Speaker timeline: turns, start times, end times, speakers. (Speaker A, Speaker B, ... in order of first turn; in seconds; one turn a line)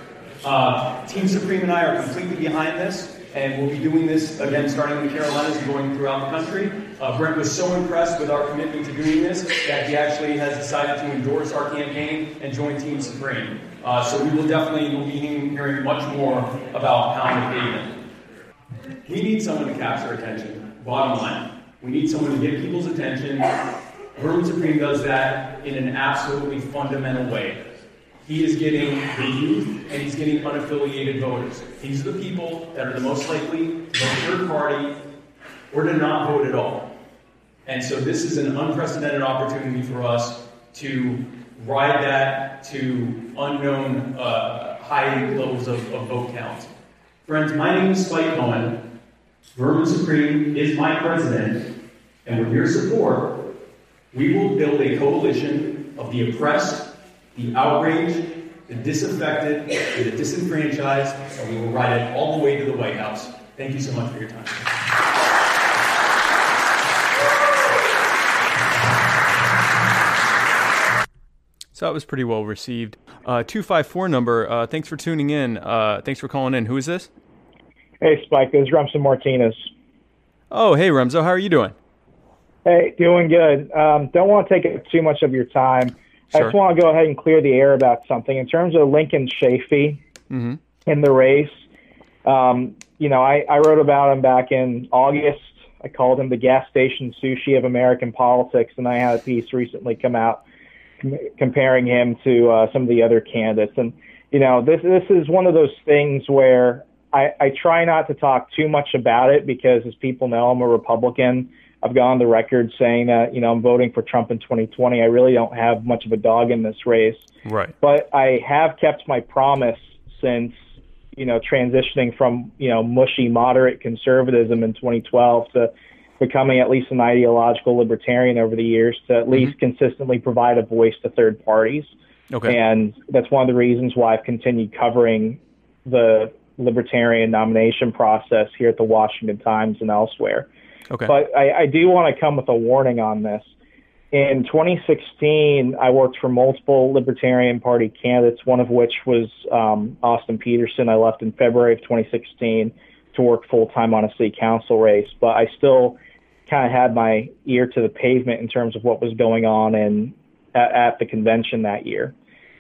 Speaker A: 0.4-18.0
Speaker A: 19.1-23.5
Speaker A: 24.1-27.6
Speaker A: 28.3-35.0
Speaker A: 35.7-36.9
Speaker A: 37.7-46.7
Speaker A: 47.3-48.8
Speaker A: 49.5-51.6
Speaker A: 52.2-53.3
Speaker A: 54.1-64.6
Speaker B: 71.8-77.1
Speaker C: 78.0-79.7
Speaker B: 80.5-81.8
Speaker C: 82.7-90.0
Speaker B: 90.3-90.6
Speaker C: 90.9-91.6
Speaker C: 92.2-100.4
Speaker C: 101.0-117.3
Speaker B: 117.5-117.7
Speaker C: 117.8-120.6
Speaker C: 121.2-131.9
Speaker B: 132.3-132.6
Speaker C: 132.5-140.5
Speaker C: 141.1-143.5
Speaker C: 144.1-162.1